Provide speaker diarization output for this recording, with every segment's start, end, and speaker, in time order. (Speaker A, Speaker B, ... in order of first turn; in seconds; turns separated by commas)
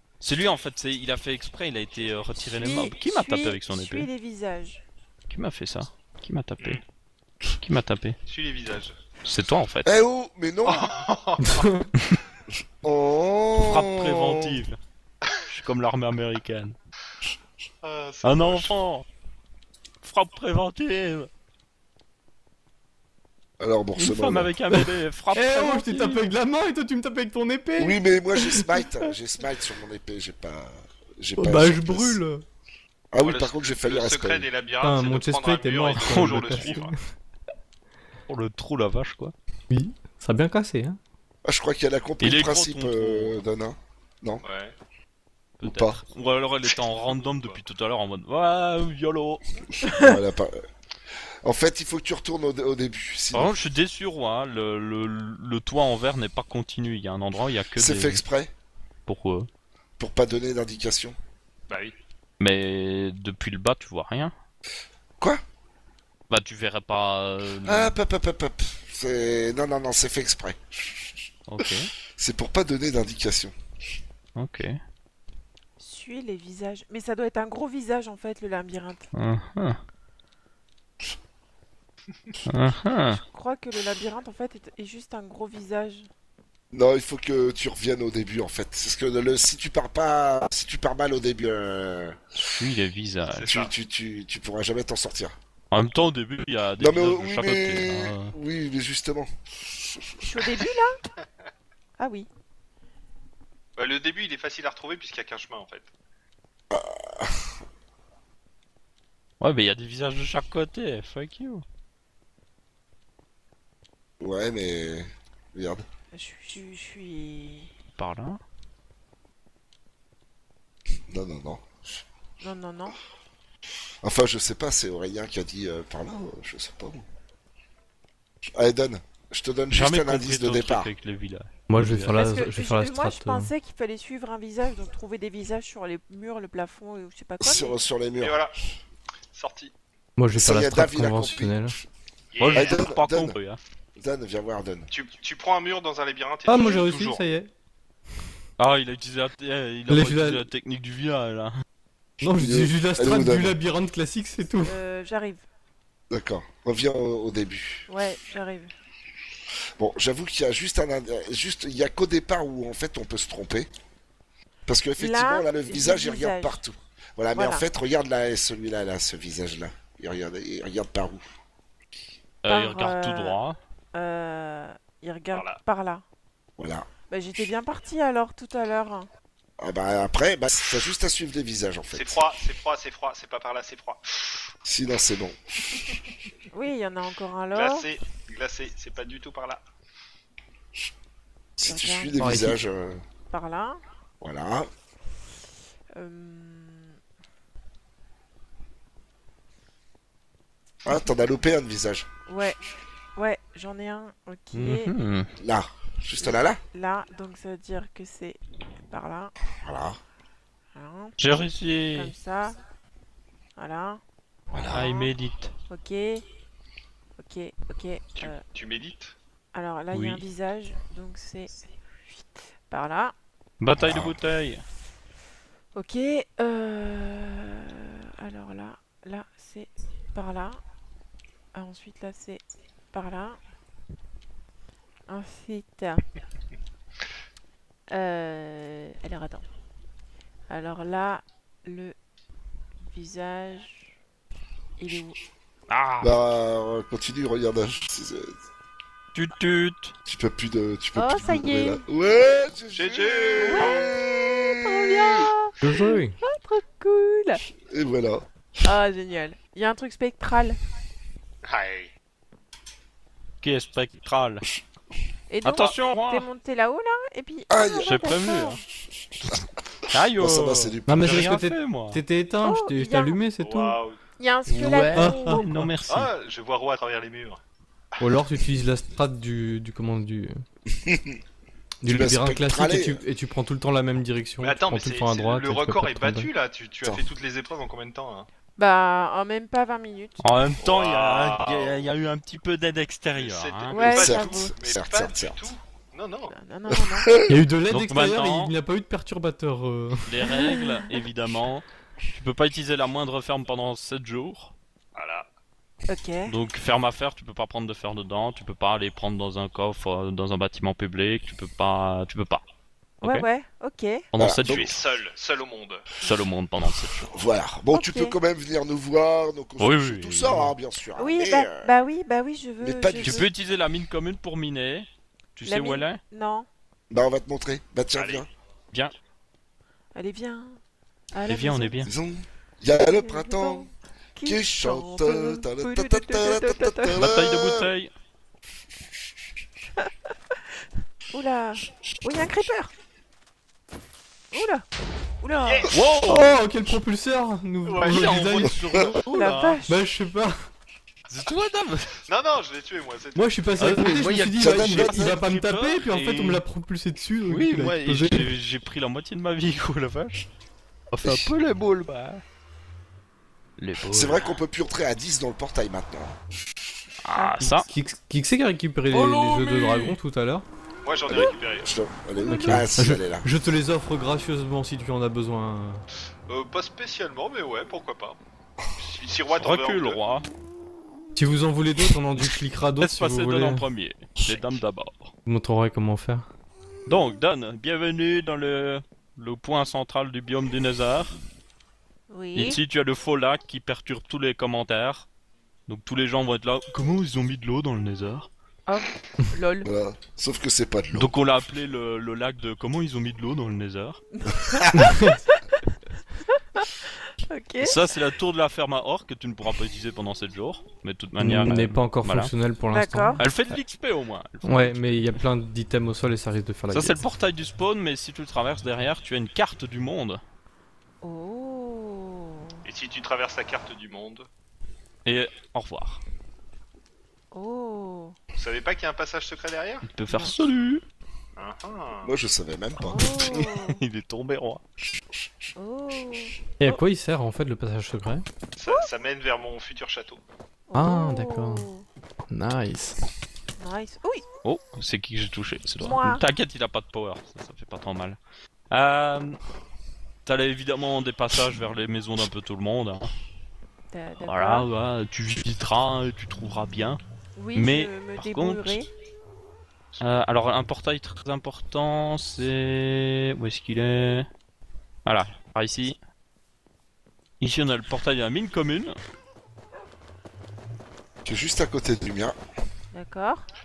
Speaker A: 0.2-4.1, Speaker B: 2.6-4.8, Speaker A: 5.3-6.8, Speaker A: 7.6-8.2, Speaker C: 8.3-9.0, Speaker A: 9.2-9.9, Speaker D: 9.8-10.9, Speaker C: 10.7-11.7, Speaker E: 11.4-11.9, Speaker D: 12.8-14.6, Speaker A: 13.6-14.8, Speaker A: 15.5-16.7, Speaker C: 17.8-18.7, Speaker A: 18.2-19.0, Speaker A: 20.0-21.3, Speaker D: 23.6-24.5, Speaker A: 24.0-26.2, Speaker E: 24.8-28.8, Speaker D: 27.8-32.2, Speaker E: 31.4-32.4, Speaker D: 33.1-34.5, Speaker C: 33.2-37.0, Speaker E: 34.8-37.0, Speaker A: 36.0-36.9, Speaker A: 38.3-39.3, Speaker E: 39.7-41.0, Speaker D: 41.4-44.4, Speaker A: 42.2-43.4, Speaker C: 44.4-44.7, Speaker A: 45.6-49.4, Speaker D: 45.6-46.0, Speaker C: 47.1-47.6, Speaker B: 49.9-50.1, Speaker D: 50.0-50.6, Speaker D: 51.4-53.5, Speaker A: 53.3-58.2, Speaker D: 57.8-58.5, Speaker A: 59.1-59.5, Speaker D: 60.0-61.1, Speaker C: 61.7-62.0, Speaker A: 62.4-64.3, Speaker A: 66.3-68.0, Speaker D: 67.6-71.0, Speaker A: 71.5-71.9, Speaker D: 72.2-73.5, Speaker A: 74.3-74.7, Speaker B: 75.8-79.1, Speaker A: 79.1-79.8, Speaker A: 82.5-83.2, Speaker B: 83.0-86.1, Speaker D: 86.7-92.4, Speaker A: 92.5-93.5, Speaker C: 93.3-93.7, Speaker D: 93.5-95.3, Speaker A: 95.7-98.3, Speaker D: 96.8-100.1, Speaker B: 100.2-101.0, Speaker B: 102.0-102.3, Speaker C: 103.8-105.9, Speaker D: 106.7-107.5, Speaker A: 109.4-111.6, Speaker D: 114.2-115.8, Speaker B: 116.1-117.7, Speaker A: 118.0-118.4, Speaker D: 121.1-122.0, Speaker B: 122.4-123.0, Speaker D: 124.0-127.0, Speaker D: 128.5-130.9, Speaker A: 129.7-132.2, Speaker E: 131.7-133.5, Speaker B: 132.1-137.8, Speaker D: 137.4-138.5, Speaker C: 138.2-138.5, Speaker C: 139.3-139.7, Speaker E: 140.2-141.8, Speaker D: 140.3-141.8, Speaker C: 142.3-142.8, Speaker A: 142.4-143.6, Speaker D: 142.5-143.4, Speaker D: 144.0-144.9, Speaker C: 144.9-147.2, Speaker E: 146.4-147.5, Speaker A: 148.6-151.6, Speaker E: 149.9-150.4, Speaker E: 152.2-154.7, Speaker D: 152.3-153.6, Speaker B: 154.6-155.4, Speaker D: 156.1-157.8, Speaker B: 157.9-158.7, Speaker D: 159.8-163.7, Speaker D: 164.7-171.3, Speaker B: 165.0-166.6, Speaker B: 167.3-167.6, Speaker A: 172.4-173.6, Speaker B: 172.5-173.4, Speaker B: 173.9-176.0, Speaker C: 175.3-175.6, Speaker D: 176.6-176.9, Speaker B: 177.1-179.1, Speaker D: 179.6-182.2, Speaker C: 181.9-184.5, Speaker D: 184.7-185.8, Speaker B: 186.5-187.8, Speaker C: 187.5-189.6, Speaker D: 191.6-193.0, Speaker B: 191.6-192.2, Speaker E: 192.2-192.6, Speaker B: 193.3-193.8, Speaker D: 194.2-194.7, Speaker B: 195.9-197.0, Speaker D: 200.8-202.1, Speaker B: 202.3-202.6, Speaker B: 203.2-204.9, Speaker A: 204.5-205.3, Speaker D: 205.4-206.6, Speaker B: 206.2-208.4, Speaker B: 208.9-209.3, Speaker D: 209.6-210.0, Speaker B: 210.7-211.2, Speaker A: 211.2-212.1, Speaker B: 211.9-212.6, Speaker B: 213.6-214.0, Speaker D: 214.5-214.9, Speaker A: 214.7-215.5, Speaker B: 214.7-215.1, Speaker B: 215.7-216.2, Speaker B: 217.2-218.4, Speaker C: 218.2-219.2, Speaker B: 219.5-221.5, Speaker A: 219.9-220.2, Speaker B: 222.1-223.1, Speaker A: 223.6-224.6, Speaker D: 223.7-224.2, Speaker B: 225.7-230.6, Speaker B: 231.5-233.4, Speaker B: 235.1-236.0, Speaker B: 237.9-239.4, Speaker B: 240.5-241.9, Speaker B: 242.8-243.9, Speaker B: 244.8-245.2, Speaker A: 245.7-246.1, Speaker D: 246.0-248.4, Speaker A: 249.1-249.9, Speaker D: 250.1-255.3, Speaker B: 250.9-251.8, Speaker C: 252.7-253.9, Speaker B: 253.4-257.4, Speaker E: 255.6-256.2, Speaker D: 257.6-258.2, Speaker B: 258.6-260.6, Speaker C: 261.4-261.9, Speaker A: 263.4-264.5, Speaker B: 265.3-268.6, Speaker A: 265.4-266.3, Speaker D: 267.5-268.2, Speaker A: 267.8-268.6, Speaker A: 269.9-272.0, Speaker D: 270.2-271.2, Speaker E: 270.9-273.8, Speaker B: 272.4-273.2, Speaker C: 273.4-274.0, Speaker B: 274.2-275.4, Speaker A: 274.5-276.1, Speaker E: 274.6-275.4, Speaker C: 275.9-277.4, Speaker E: 278.0-280.4, Speaker D: 280.7-281.2, Speaker E: 281.8-286.3, Speaker D: 281.9-283.0, Speaker C: 284.4-288.3, Speaker B: 288.6-290.2, Speaker A: 290.2-293.8, Speaker C: 290.6-291.9, Speaker C: 293.2-296.3, Speaker B: 293.7-294.5, Speaker D: 293.8-295.5, Speaker B: 296.3-297.1, Speaker D: 296.7-297.4, Speaker E: 297.3-300.3, Speaker A: 297.7-298.5, Speaker A: 300.1-304.5, Speaker B: 300.3-300.9, Speaker C: 304.9-305.3, Speaker B: 305.9-306.3, Speaker A: 306.3-312.4, Speaker A: 313.0-313.2, Speaker B: 313.0-314.1, Speaker A: 314.1-314.8, Speaker D: 314.1-314.7, Speaker C: 314.4-315.9, Speaker A: 316.0-317.1, Speaker D: 316.9-321.7, Speaker B: 317.7-318.2, Speaker A: 319.6-320.5, Speaker B: 321.0-323.3, Speaker D: 322.6-323.3, Speaker A: 323.0-326.0, Speaker B: 325.4-326.5, Speaker D: 326.9-328.3, Speaker C: 327.9-328.3, Speaker B: 329.9-330.6, Speaker B: 331.1-331.9, Speaker A: 331.3-331.9, Speaker D: 331.8-333.7, Speaker B: 332.8-337.1, Speaker D: 334.2-337.7, Speaker A: 336.9-337.9, Speaker B: 341.1-342.7, Speaker B: 344.3-344.6, Speaker B: 345.2-345.7, Speaker C: 345.4-345.8, Speaker A: 345.7-346.3, Speaker E: 346.0-348.6, Speaker C: 347.6-348.1, Speaker A: 347.8-349.6, Speaker B: 349.1-349.8, Speaker E: 349.7-350.5, Speaker A: 351.1-352.0, Speaker C: 352.1-353.5, Speaker E: 353.1-358.3, Speaker A: 353.6-356.4, Speaker D: 354.4-355.2, Speaker A: 357.2-360.2, Speaker A: 360.9-362.2, Speaker A: 363.6-364.3, Speaker D: 363.9-366.2, Speaker A: 367.1-367.7, Speaker B: 367.1-367.5, Speaker E: 367.4-370.4, Speaker A: 368.9-369.9, Speaker C: 370.8-371.8, Speaker D: 371.1-373.2, Speaker B: 372.2-372.7, Speaker E: 372.3-375.8, Speaker C: 376.3-378.2, Speaker C: 378.8-380.0, Speaker A: 379.3-380.3, Speaker E: 381.1-383.6, Speaker A: 382.8-385.1, Speaker E: 385.2-386.3, Speaker A: 386.9-391.1, Speaker B: 392.1-392.6, Speaker A: 392.3-395.1, Speaker A: 395.7-398.3, Speaker B: 398.7-399.7, Speaker D: 399.6-401.1, Speaker A: 400.9-404.0, Speaker B: 404.2-405.7, Speaker D: 404.6-404.8, Speaker E: 404.8-405.2, Speaker B: 406.3-407.8, Speaker A: 407.6-412.3, Speaker E: 411.2-413.2, Speaker B: 412.7-413.2, Speaker A: 413.2-415.2, Speaker E: 414.4-417.0, Speaker A: 416.7-420.2, Speaker B: 421.0-422.6, Speaker C: 422.6-424.3, Speaker A: 425.0-426.0, Speaker B: 427.3-428.1, Speaker C: 428.3-429.9, Speaker A: 429.9-430.8, Speaker C: 431.4-432.1, Speaker D: 432.0-433.4, Speaker B: 432.8-433.8, Speaker A: 433.0-434.6, Speaker B: 435.6-436.8, Speaker E: 436.6-438.2, Speaker C: 438.6-440.2, Speaker B: 440.7-441.9, Speaker E: 440.7-441.7, Speaker E: 442.3-443.0, Speaker B: 443.6-444.2, Speaker A: 444.4-448.2, Speaker B: 445.8-446.2, Speaker A: 448.7-449.4, Speaker A: 450.2-453.1, Speaker B: 453.9-454.7, Speaker A: 454.2-457.0, Speaker B: 457.4-458.9, Speaker A: 457.5-458.8, Speaker A: 460.0-464.3, Speaker A: 465.1-466.0, Speaker A: 467.4-468.9, Speaker D: 471.2-472.4, Speaker B: 472.9-473.5